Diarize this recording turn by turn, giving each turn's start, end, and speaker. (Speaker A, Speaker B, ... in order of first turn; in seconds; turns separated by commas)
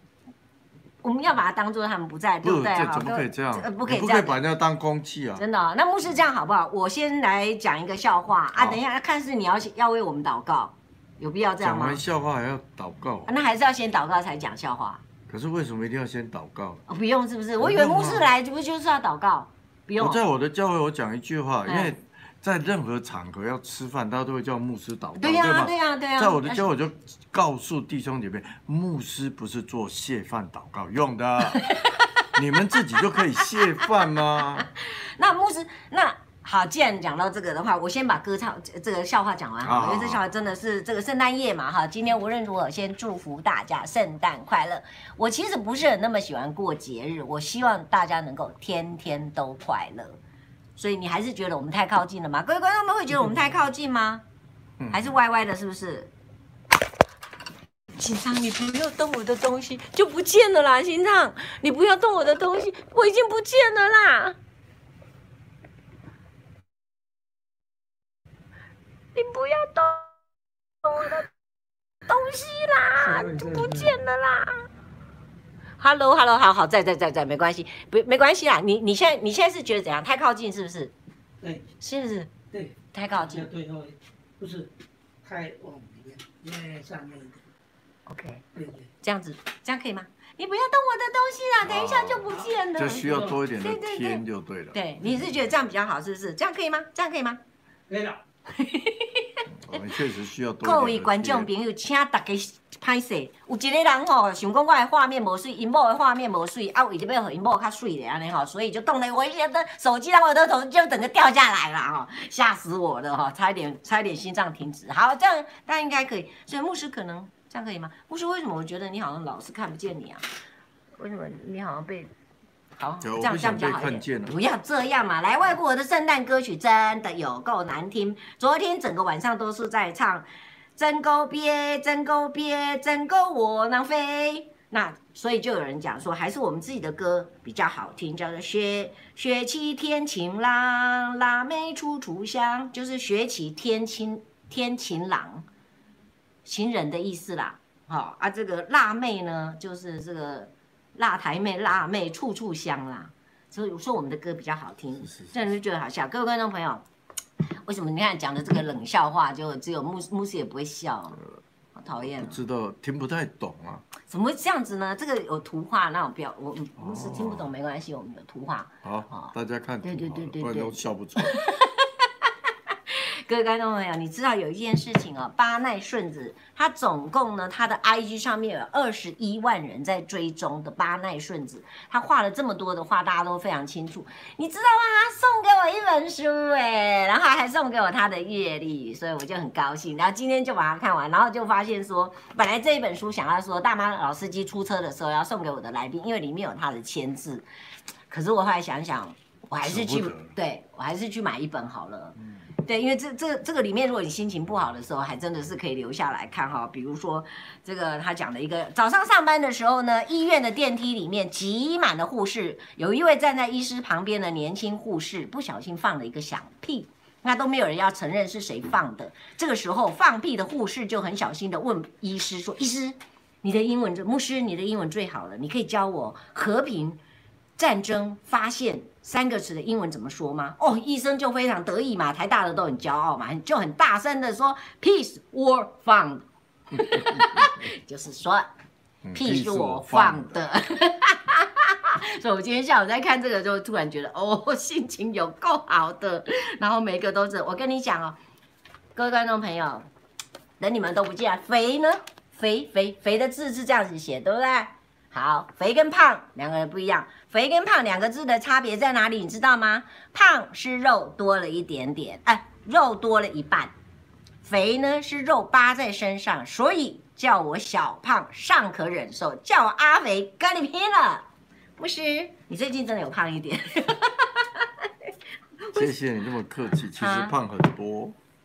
Speaker A: 1.0-4.4, Speaker B: 2.4-5.5, Speaker A: 5.4-12.0, Speaker B: 8.5-8.8, Speaker B: 11.6-13.4, Speaker A: 13.3-15.0, Speaker B: 15.3-16.8, Speaker A: 16.9-20.2, Speaker B: 17.6-18.3, Speaker B: 20.0-31.7, Speaker A: 21.7-21.9, Speaker A: 25.2-26.6, Speaker A: 31.4-32.3, Speaker B: 32.3-34.7, Speaker A: 32.9-33.9, Speaker A: 34.6-50.2, Speaker B: 39.6-40.2, Speaker A: 50.8-54.2, Speaker B: 54.8-55.2, Speaker A: 54.9-56.1, Speaker A: 58.0-64.4, Speaker A: 69.2-70.1, Speaker A: 70.8-71.3, Speaker A: 72.1-74.7, Speaker C: 73.0-74.0, Speaker A: 75.8-80.9, Speaker C: 81.4-81.7, Speaker A: 81.8-82.3, Speaker C: 82.5-87.4, Speaker A: 82.9-83.5, Speaker A: 88.1-88.4, Speaker C: 88.5-88.9, Speaker A: 89.0-97.4, Speaker B: 91.6-94.8, Speaker C: 92.3-93.4, Speaker C: 97.9-98.2, Speaker A: 98.5-99.5, Speaker B: 99.5-101.5, Speaker A: 100.6-120.2, Speaker A: 121.0-122.1, Speaker A: 122.8-145.5, Speaker B: 123.0-124.3, Speaker A: 146.4-156.8, Speaker B: 155.1-155.3, Speaker A: 157.7-161.2, Speaker A: 161.8-162.4, Speaker B: 162.0-163.9, Speaker A: 164.1-197.5, Speaker B: 166.8-167.5, Speaker B: 168.8-171.5, Speaker A: 198.1-227.0, Speaker B: 199.6-200.3, Speaker A: 227.6-238.5, Speaker B: 236.8-237.6, Speaker B: 239.0-240.4, Speaker A: 239.2-248.2, Speaker A: 248.9-249.9, Speaker A: 250.6-263.7, Speaker A: 264.4-271.3, Speaker A: 271.8-274.9, Speaker A: 275.6-275.9, Speaker B: 275.7-278.2, Speaker A: 276.9-277.4